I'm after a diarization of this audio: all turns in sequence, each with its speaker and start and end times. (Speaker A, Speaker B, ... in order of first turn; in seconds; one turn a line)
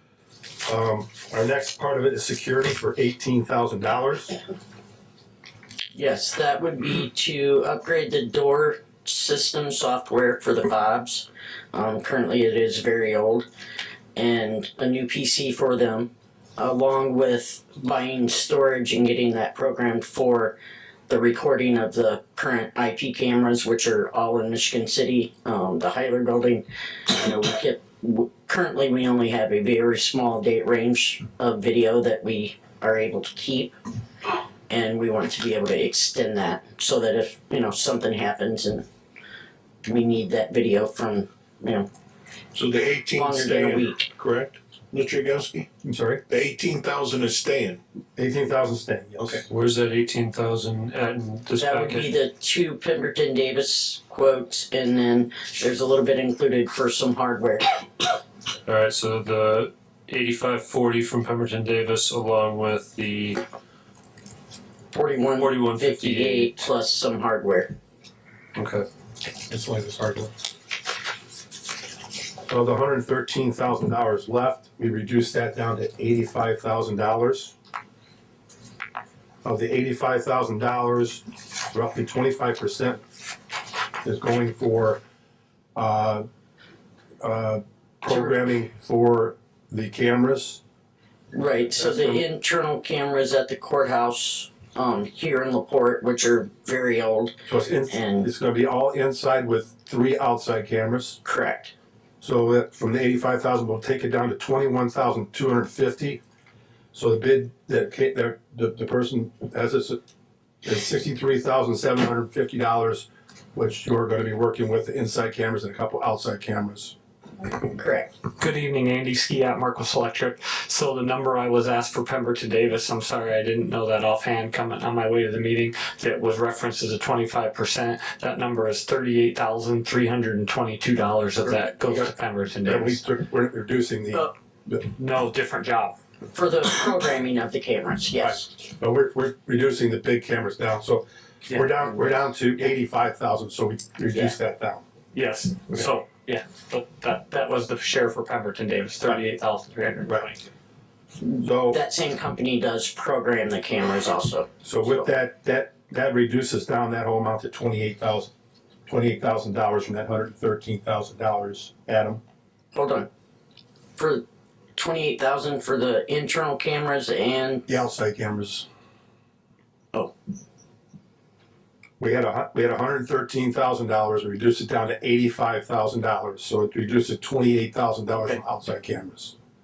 Speaker A: 0.7-4.4
Speaker B: 5.9-13.4
Speaker B: 14.2-33.7
Speaker B: 34.7-38.8
Speaker B: 39.8-41.9
Speaker C: 42.5-45.7
Speaker B: 43.2-44.0
Speaker A: 45.8-46.2
Speaker C: 46.3-47.8
Speaker A: 48.2-49.5
Speaker D: 49.5-52.1
Speaker B: 51.6-58.1
Speaker D: 58.6-63.4
Speaker B: 64.9-67.7
Speaker D: 65.4-66.7
Speaker D: 68.5-68.8
Speaker A: 69.5-70.3
Speaker A: 72.4-77.5
Speaker A: 79.4-83.0
Speaker A: 84.0-85.0
Speaker A: 85.7-86.2
Speaker A: 87.2-90.6
Speaker B: 88.0-88.3
Speaker B: 91.3-97.3
Speaker A: 91.8-92.2
Speaker A: 97.5-101.2
Speaker B: 97.9-98.3
Speaker B: 101.2-101.7
Speaker A: 102.2-106.2
Speaker A: 106.9-110.0
Speaker A: 110.6-116.9
Speaker B: 117.4-118.1
Speaker E: 118.4-133.0
Speaker A: 132.7-134.8
Speaker E: 134.9-136.0
Speaker B: 136.3-138.5
Speaker A: 138.2-144.8
Speaker B: 144.1-144.4
Speaker E: 145.1-150.4
Speaker B: 151.2-154.5
Speaker A: 151.4-151.8
Speaker A: 154.6-158.3
Speaker A: 158.8-162.2
Speaker B: 162.7-163.1
Speaker B: 164.0-164.2
Speaker B: 164.7-167.7
Speaker A: 167.7-168.7
Speaker A: 172.0-179.3